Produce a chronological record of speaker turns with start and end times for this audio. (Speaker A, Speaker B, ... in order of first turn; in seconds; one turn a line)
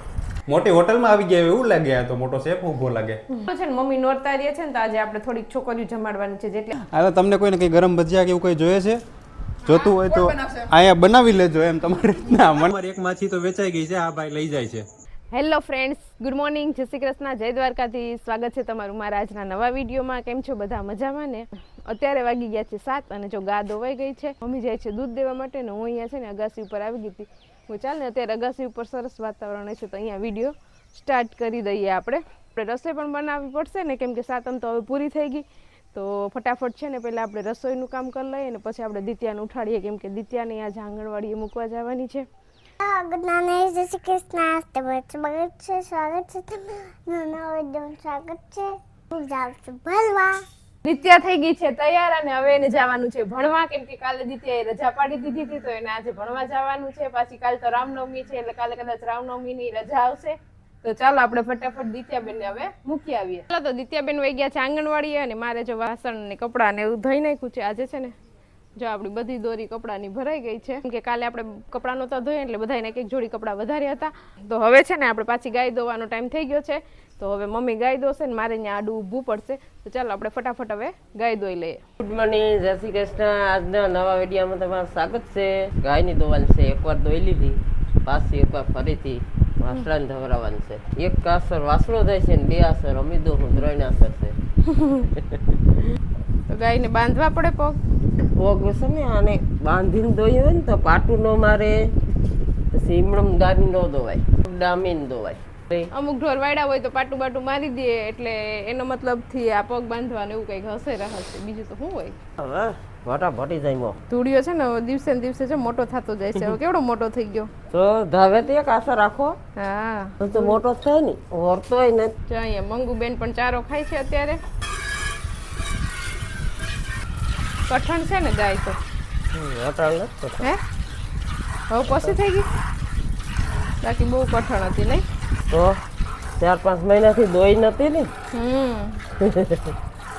Speaker A: 0.5-3.2
Speaker B: 3.4-6.7
Speaker A: 6.9-9.0
Speaker A: 9.7-14.9
Speaker B: 15.3-42.2
Speaker C: 42.8-50.4
Speaker B: 50.8-68.1
Speaker B: 68.8-81.8
Speaker D: 82.0-94.4
Speaker B: 94.7-95.0
Speaker B: 96.5-97.8
Speaker D: 98.4-101.8
Speaker D: 102.7-105.9
Speaker B: 105.9-112.2
Speaker D: 112.4-114.0
Speaker B: 114.1-117.5
Speaker D: 117.7-119.4
Speaker B: 119.6-120.5
Speaker D: 120.2-122.1
Speaker B: 122.3-124.4
Speaker B: 127.7-128.8
Speaker D: 129.3-130.5
Speaker B: 131.7-132.5
Speaker D: 131.9-132.2
Speaker B: 133.8-135.1
Speaker D: 135.5-135.8
Speaker D: 136.4-138.1
Speaker B: 138.3-139.0
Speaker D: 139.3-139.6